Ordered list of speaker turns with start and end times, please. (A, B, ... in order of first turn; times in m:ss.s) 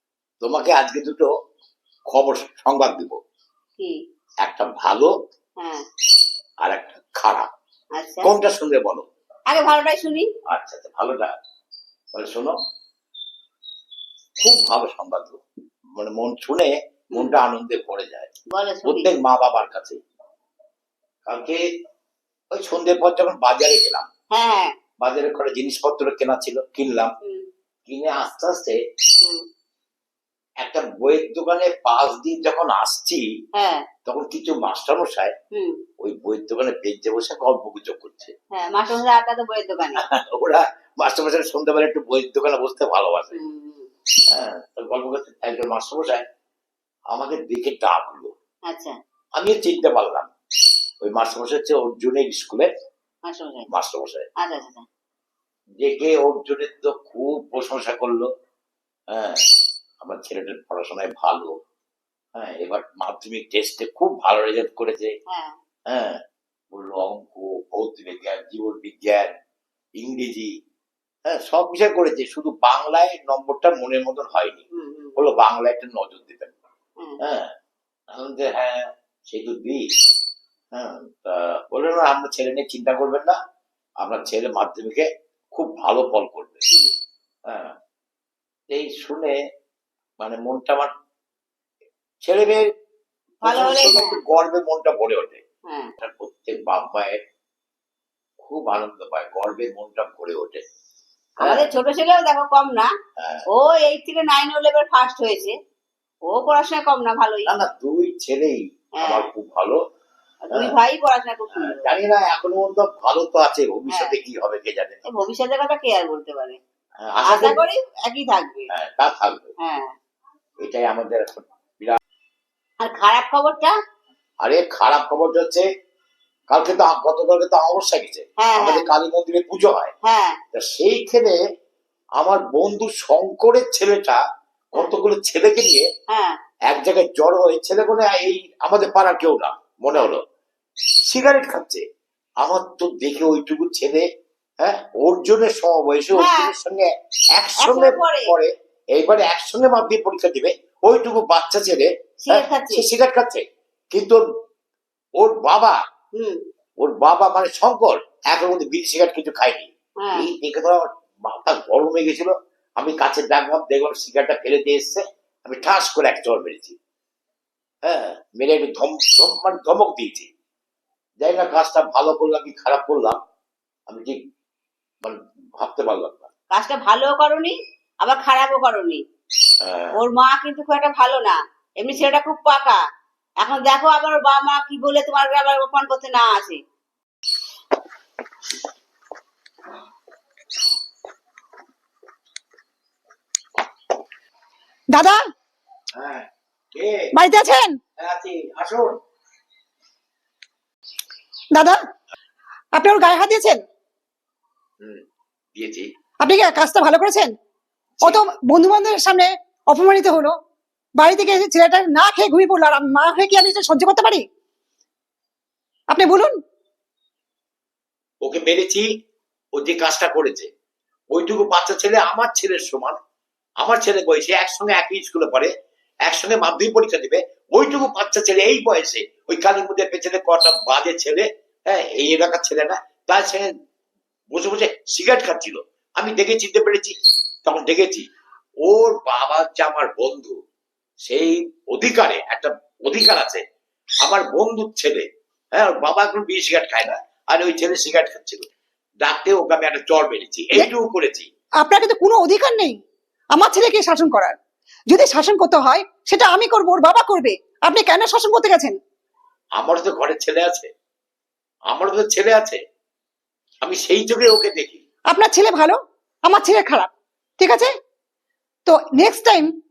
0:00.4-0:01.3 A
0:02.1-0:03.2 A
0:04.4-0:05.1 A
0:06.6-0:07.5 A
0:08.0-0:08.3 B
0:08.2-0:09.0 A
0:09.5-0:10.3 B
0:10.5-0:11.3 A
0:12.1-0:12.5 A
0:14.4-0:15.4 A
0:16.0-0:18.3 A
0:18.5-0:19.1 B
0:18.8-0:20.0 A
0:21.2-0:21.6 A
0:22.5-0:24.1 A
0:24.3-0:24.7 B
0:25.0-0:27.1 A
0:27.9-0:28.8 A
0:30.6-0:33.2 A
0:33.5-0:33.8 B
0:34.0-0:35.3 A
0:36.0-0:38.3 A
0:38.5-0:40.0 B
0:40.1-0:43.3 A
0:43.3-0:43.9 B
0:44.3-0:46.2 A
0:47.1-0:48.3 A
0:48.7-0:48.9 B
0:49.4-0:50.3 A
0:51.0-0:52.7 A
0:53.3-0:53.6 B
0:53.7-0:54.2 A
0:54.4-0:54.8 B
0:55.8-0:58.3 A
0:59.1-0:59.4 A
1:00.0-1:01.5 A
1:02.4-1:05.1 A
1:05.3-1:05.5 B
1:05.9-1:06.2 A
1:06.7-1:09.3 A
1:10.0-1:10.5 A
1:11.3-1:14.6 A
1:14.7-1:15.2 B
1:15.2-1:16.6 A
1:17.2-1:17.5 A
1:18.1-1:19.8 A
1:20.7-1:23.4 A
1:24.0-1:26.6 A
1:27.5-1:27.7 A
1:28.7-1:29.3 A
1:30.2-1:30.9 A
1:32.2-1:32.7 A
1:33.4-1:34.2 B
1:33.4-1:35.4 A
1:36.0-1:37.2 A
1:38.4-1:40.6 A
1:41.4-1:42.9 B
1:41.4-1:41.7 A
1:43.2-1:43.4 A
1:43.5-1:45.5 B
1:46.3-1:47.6 B
1:47.4-1:49.8 A
1:49.0-1:49.2 B
1:50.5-1:51.9 B
1:51.5-1:55.0 A
1:53.9-1:54.1 B
1:55.1-1:56.6 B
1:57.0-1:57.6 A
1:57.2-1:58.7 B
1:58.7-1:59.5 A
1:59.6-1:59.9 B
2:00.6-2:02.0 A
2:02.8-2:03.7 B
2:04.4-2:05.7 A
2:06.5-2:09.9 A
2:08.4-2:08.8 B
2:10.0-2:10.4 B
2:10.5-2:11.4 A
2:12.2-2:14.2 A
2:14.7-2:15.9 A
2:16.1-2:16.3 B
2:16.7-2:20.2 A
2:21.1-2:21.8 A
2:22.4-2:24.0 A
2:24.6-2:34.2 A
2:26.1-2:26.5 B
2:27.6-2:28.3 B
2:32.2-2:32.8 B
2:35.2-2:35.8 A
2:36.8-2:46.8 A
2:40.0-2:40.3 B
2:47.8-2:50.3 A
2:51.2-2:53.2 A
2:53.9-2:54.2 A
2:55.0-2:56.3 A
2:56.5-2:59.0 B
2:59.6-3:00.0 A
2:59.9-3:02.8 B
3:03.4-3:06.6 B
3:14.9-3:15.2 C
3:15.9-3:17.1 A
3:17.1-3:17.8 C
3:18.0-3:19.0 A
3:22.7-3:23.6 C
3:25.6-3:25.9 A
3:26.2-3:27.3 C
3:28.0-3:30.3 C
3:31.0-3:34.2 C
3:35.9-3:36.3 C
3:38.2-3:38.9 A
3:39.6-3:40.5 A
3:41.1-3:43.0 A
3:43.6-3:45.5 A
3:46.0-3:53.5 A
3:54.3-3:56.9 A
3:57.4-3:58.1 A
3:58.6-4:00.3 A
4:01.1-4:03.4 A
4:04.0-4:08.5 A
4:09.0-4:11.3 A
4:11.6-4:12.8 C
4:13.4-4:14.4 C
4:14.9-4:18.8 C
4:19.6-4:20.7 A
4:21.7-4:22.6 A
4:23.6-4:24.8 A
4:25.1-4:27.7 C
4:28.6-4:29.5 C